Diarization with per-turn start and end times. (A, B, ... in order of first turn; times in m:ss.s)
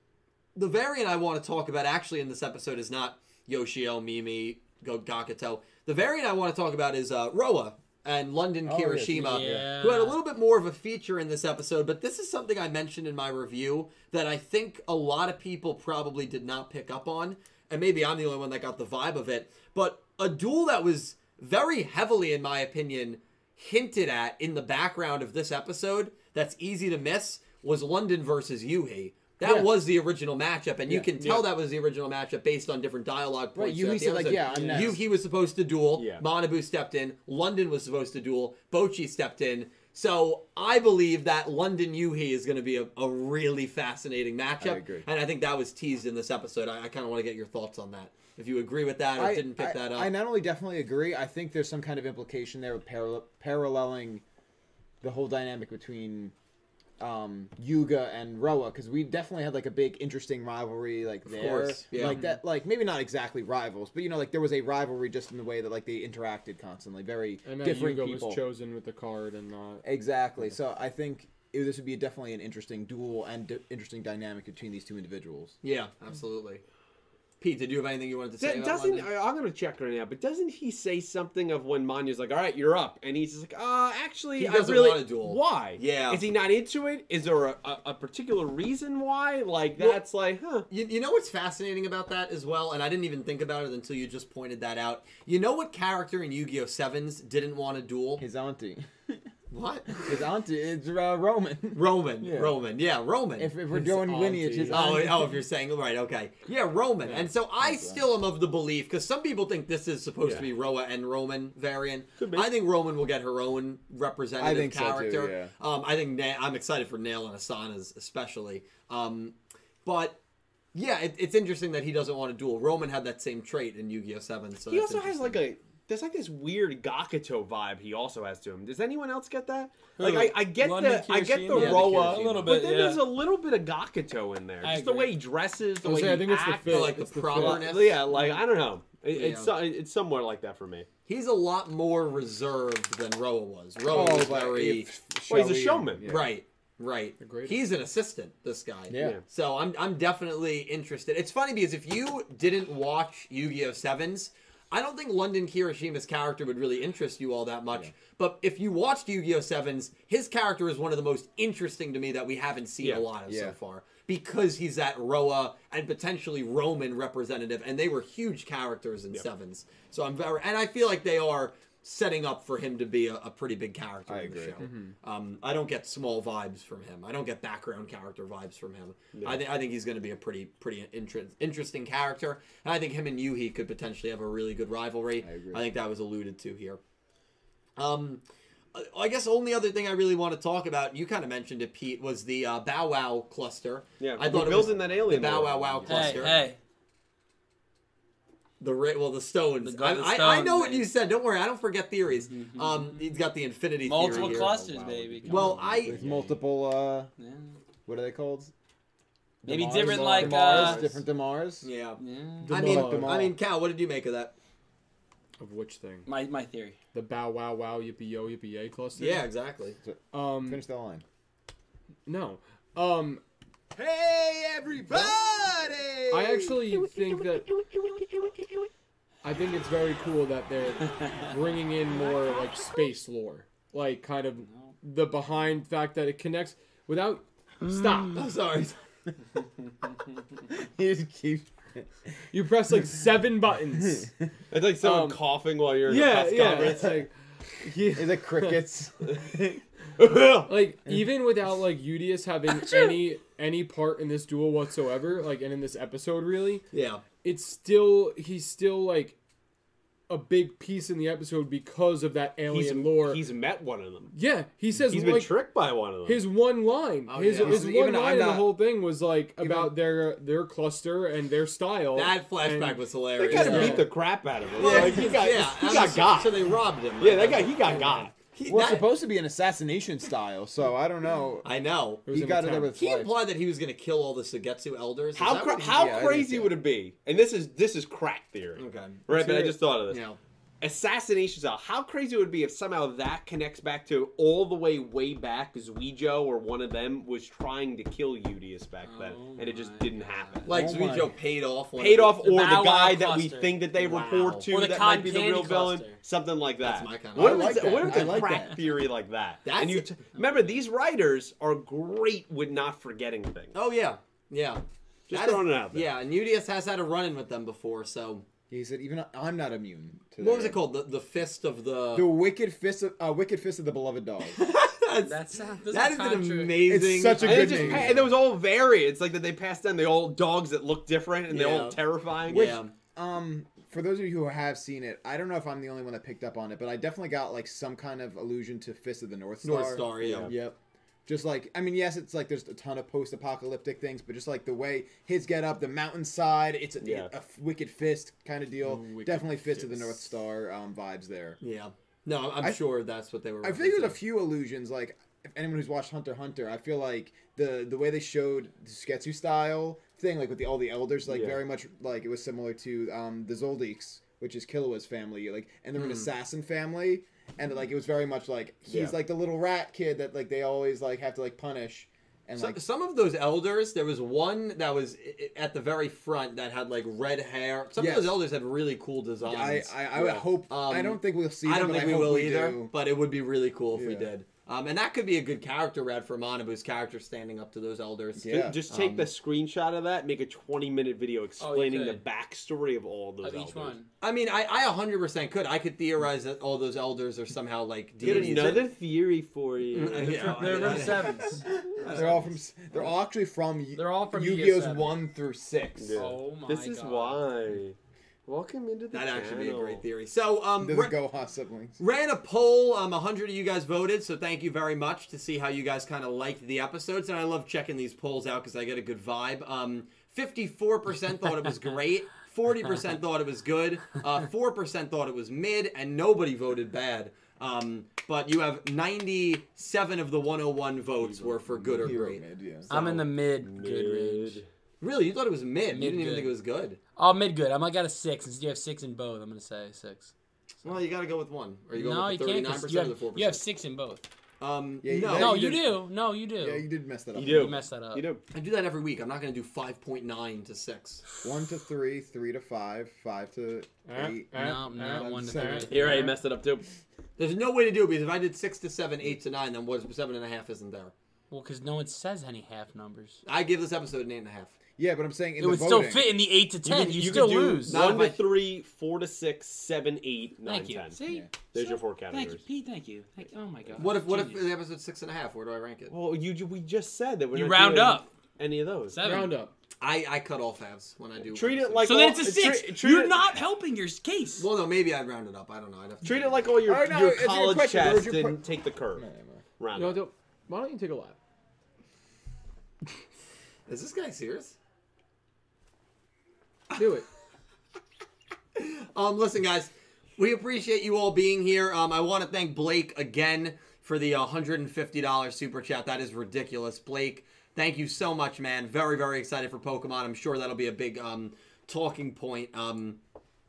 0:00.6-0:50.1 A
0:08.6-0:09.7 B
0:09.2-0:10.2 C
0:30.9-0:31.1 B
0:31.2-0:31.5 D
0:33.6-0:35.0 B
0:34.5-0:34.8 C
0:35.9-0:36.2 D
0:44.6-0:45.1 B
0:49.2-0:54.2 B
0:55.0-0:56.3 B
0:57.0-1:08.4 B
1:01.3-1:02.2 A
1:02.1-1:02.4 C
1:07.4-1:09.8 E
1:09.8-1:15.6 B
1:15.6-1:16.6 A
1:17.4-1:19.1 A
1:18.4-1:30.7 D
1:24.4-1:26.3 A
1:30.7-1:38.2 A
1:38.2-1:39.2 B
1:39.5-1:40.1 A
1:40.0-1:42.6 B
1:41.7-1:43.6 A
1:43.4-1:45.4 B
1:43.7-1:45.2 E
1:44.7-2:00.2 A
1:47.1-1:48.1 B
1:50.2-1:50.5 D
1:52.2-1:52.5 D
1:54.4-1:55.5 B
2:00.7-2:05.4 A
2:04.7-2:20.9 D
2:10.0-2:13.1 C
2:10.0-2:10.8 E
2:11.5-2:12.5 A
2:14.6-2:15.1 C
2:15.8-2:17.6 E
2:16.7-2:18.0 A
2:19.1-2:19.5 A
2:21.1-2:24.9 A
2:23.9-2:26.4 B
2:23.9-2:24.3 E
2:25.3-2:26.1 D
2:26.0-3:06.8 A
2:27.2-2:27.6 E
2:28.9-2:29.2 B
2:29.0-2:29.2 D
2:42.8-2:43.1 D
2:43.3-2:43.6 B
2:54.1-2:54.7 B
2:54.6-2:55.0 E
2:59.2-2:59.4 D
3:05.2-3:05.7 B
3:07.8-3:16.4 A
3:14.0-3:16.2 D
3:15.2-3:15.4 B
3:15.9-3:16.6 C
3:18.6-3:24.6 A
3:19.6-3:20.9 C
3:22.3-3:23.1 C
3:23.8-3:25.7 C
3:24.1-3:24.6 B
3:24.2-3:26.4 E
3:25.3-3:26.0 A
3:25.8-3:27.1 B
3:27.2-3:27.6 C
3:27.9-3:28.5 B
3:29.4-3:31.7 B
3:29.5-3:30.8 C
3:29.5-3:30.3 E
3:30.2-3:31.0 A
3:31.6-3:34.3 A
3:32.0-3:32.6 C
3:32.4-3:33.3 E
3:32.5-3:33.4 B
3:35.4-3:36.1 E
3:36.1-3:36.8 C
3:36.9-3:39.3 E
3:39.0-3:39.8 A
3:39.8-3:41.0 B
3:40.1-3:40.6 E
3:42.1-3:43.2 E
3:43.8-3:48.5 B
3:44.9-3:45.7 A
3:46.1-3:47.5 E
3:49.2-3:58.2 E
3:51.0-3:51.4 C
3:54.5-3:54.7 C
3:57.7-3:58.2 C
3:58.1-3:58.8 A
4:00.5-4:01.9 B
4:02.3-4:04.1 E
4:04.5-4:07.0 D
4:04.8-4:05.2 E
4:05.8-4:08.7 E
4:07.9-4:09.6 B
4:09.0-4:09.3 D
4:10.0-4:10.5 D
4:10.5-4:16.6 E
4:16.7-4:17.0 A
4:17.2-4:19.2 E
4:20.1-4:23.2 E
4:22.5-4:24.2 D
4:24.1-4:25.4 E
4:24.9-4:26.2 D
4:26.0-4:33.9 E
4:27.1-4:27.6 A
4:27.4-4:28.6 B
4:29.4-4:29.8 B
4:31.9-4:33.9 A
4:33.2-4:38.1 D
4:34.6-4:38.9 A
4:34.6-4:35.2 B
4:34.7-4:35.1 E
4:38.4-4:41.5 B
4:41.4-4:46.0 A
4:42.1-4:43.2 B
4:42.1-4:42.7 E
4:45.2-4:50.0 D
4:45.7-4:46.5 B
4:48.6-4:50.2 A
4:50.6-5:00.5 D
4:58.8-5:00.5 C
5:00.5-5:01.1 B
5:00.5-5:02.2 A
5:01.8-5:13.5 D
5:02.2-5:03.6 C
5:03.8-5:04.5 A
5:04.5-5:06.0 C
5:06.6-5:08.3 A
5:07.2-5:08.6 B
5:09.4-5:09.9 A
5:10.2-5:10.6 C
5:13.5-5:18.3 A
5:15.1-5:15.9 D
5:18.5-5:20.6 B
5:20.2-5:22.1 A
5:21.9-5:24.4 B
5:24.3-5:28.0 A
5:25.0-5:26.6 C
5:26.6-5:28.1 B
5:27.2-5:32.6 D
5:31.3-5:32.7 A
5:33.0-5:51.4 B
5:39.4-5:40.4 A
5:40.0-5:40.3 D
5:46.8-5:47.1 D
5:48.6-5:50.0 E
5:51.4-5:54.0 A
5:52.4-5:52.6 B
5:53.4-6:12.6 B
6:01.1-6:01.4 D
6:05.8-6:06.1 A
6:08.7-6:09.0 D
6:12.4-6:19.8 A
6:17.8-6:18.2 B
6:19.2-6:22.7 B
6:20.0-6:20.3 D
6:20.5-6:29.1 A
6:23.7-6:24.1 B
6:28.2-6:28.6 B
6:28.3-6:33.8 D
6:31.4-6:32.0 C
6:33.2-6:33.9 C
6:34.0-6:38.7 A
6:38.0-6:41.1 D
6:39.7-6:42.3 A
6:39.9-6:41.4 C
6:41.2-6:46.0 B
6:43.8-6:45.0 C
6:45.8-6:47.8 D
6:46.0-6:47.2 C
6:48.3-6:49.8 D
6:48.9-6:51.0 A
6:50.6-6:51.8 B
6:51.8-7:13.0 A
7:11.2-7:11.9 E
7:11.8-7:12.7 B
7:12.7-7:14.4 C
7:12.8-7:14.4 D
7:14.8-7:16.8 A
7:15.7-7:16.4 C
7:17.0-7:20.1 C
7:20.6-7:23.4 A
7:21.8-7:24.1 C
7:24.4-7:25.5 A
7:24.8-7:25.8 B
7:25.1-7:26.7 C
7:26.4-7:27.6 B
7:27.2-7:28.2 D
7:27.2-7:28.0 C
7:28.3-7:31.0 A
7:31.2-7:36.1 B
7:33.9-7:36.2 E
7:34.4-7:36.1 C
7:35.7-7:36.7 D
7:37.2-7:40.9 A
7:41.3-7:43.2 C
7:43.2-7:44.6 A
7:44.8-7:46.1 B
7:45.4-7:48.0 C
7:46.6-7:51.0 D
7:47.6-7:48.4 A
7:50.4-7:54.5 C
7:51.0-7:51.3 B
7:51.5-7:52.4 D
7:53.8-7:55.9 A
7:55.9-7:59.0 D
7:57.3-7:58.1 C
7:58.9-7:59.4 C
7:59.0-7:59.5 E
7:59.8-8:02.0 A
8:01.2-8:03.2 D
8:01.8-8:04.5 C
8:04.4-8:06.5 A
8:06.0-8:09.0 D
8:06.6-8:09.4 B
8:09.6-8:10.0 D
8:09.7-8:11.2 E
8:13.7-8:14.6 A
8:16.7-8:17.1 E
8:18.6-8:33.0 A